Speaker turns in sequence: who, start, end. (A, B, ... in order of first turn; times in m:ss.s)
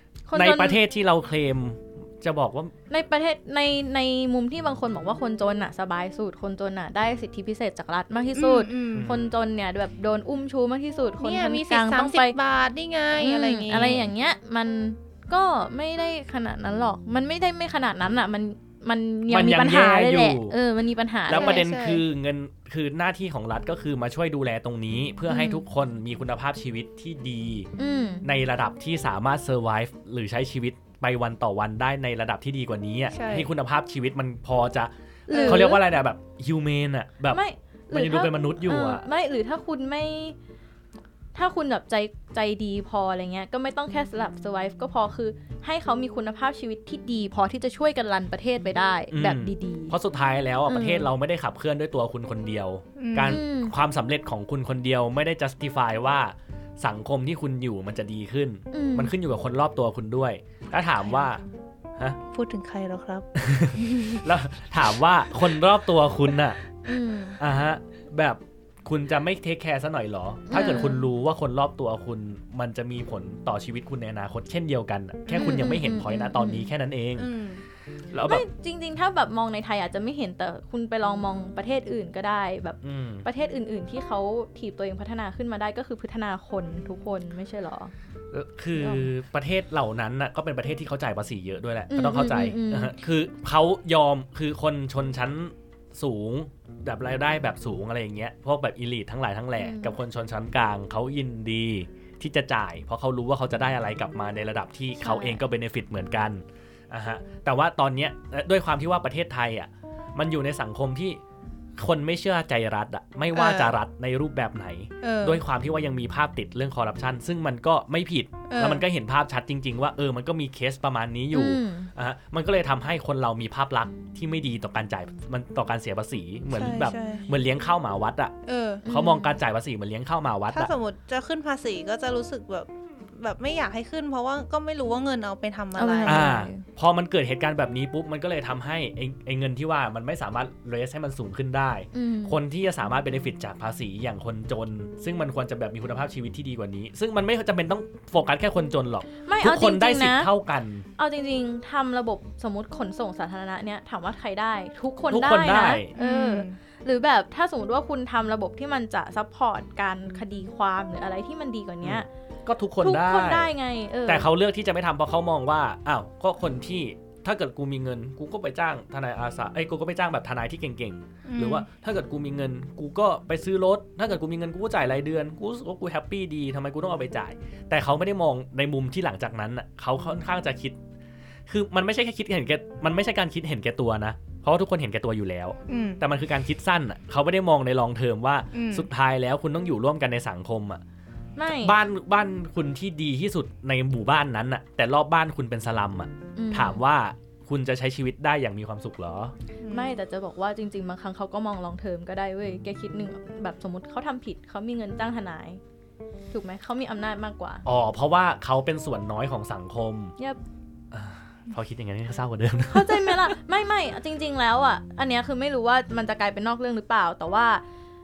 0:00.3-0:00.8 A
0:00.3-0:02.7 B
0:02.9-0:12.4 A
0:08.4-0:09.1 C
0:09.0-0:09.3 B
0:11.2-0:14.1 C
0:13.2-0:21.6 A
0:19.3-0:20.6 B
0:21.3-0:27.7 B
0:21.3-0:22.0 C
0:25.3-0:25.6 A
0:27.8-0:28.2 A
0:28.2-0:39.0 B
0:33.1-0:33.5 C
0:35.3-0:35.8 A
0:35.3-0:35.7 C
0:37.3-0:40.4 A
0:41.3-0:50.0 A
0:49.1-1:01.4 B
0:50.7-0:51.1 A
0:53.0-0:53.4 C
0:53.2-0:53.7 A
0:58.7-0:59.1 A
1:02.3-1:03.3 C
1:03.4-1:06.6 B
1:03.9-1:04.2 A
1:06.8-1:07.4 A
1:07.4-1:17.3 B
1:10.5-1:11.1 A
1:10.6-1:10.9 C
1:15.3-1:15.6 C
1:15.4-1:16.7 A
1:17.2-1:17.6 C
1:18.1-1:18.4 B
1:18.2-1:27.9 A
1:22.8-1:23.3 B
1:28.3-1:51.2 B
1:28.8-1:29.0 A
1:31.9-1:33.0 A
1:39.6-1:40.0 A
1:45.0-1:45.4 A
1:51.8-2:08.4 B
1:53.3-1:53.8 C
1:55.0-1:55.4 C
1:58.5-1:58.8 C
2:01.3-2:01.9 A
2:06.5-2:07.3 C
2:08.4-2:08.9 C
2:08.9-2:09.4 A
2:08.9-2:10.7 B
2:10.5-2:16.3 C
2:15.8-2:16.6 A
2:16.1-2:30.9 B
2:21.9-2:22.4 A
2:29.2-2:30.3 A
2:31.0-2:42.1 A
2:35.1-2:35.9 B
2:36.0-2:36.6 C
2:41.8-2:43.5 B
2:42.8-2:44.3 A
2:44.1-3:00.8 B
2:51.2-2:51.7 C
3:01.5-3:10.8 B
3:05.7-3:06.0 C
3:08.5-3:08.9 C
3:11.4-3:11.8 A
3:11.5-3:19.3 B
3:16.4-3:16.8 A
3:19.6-3:20.0 C
3:19.7-3:25.6 A
3:26.3-3:27.6 A
3:27.6-3:30.2 B
3:30.9-3:33.3 B
3:32.7-3:37.6 A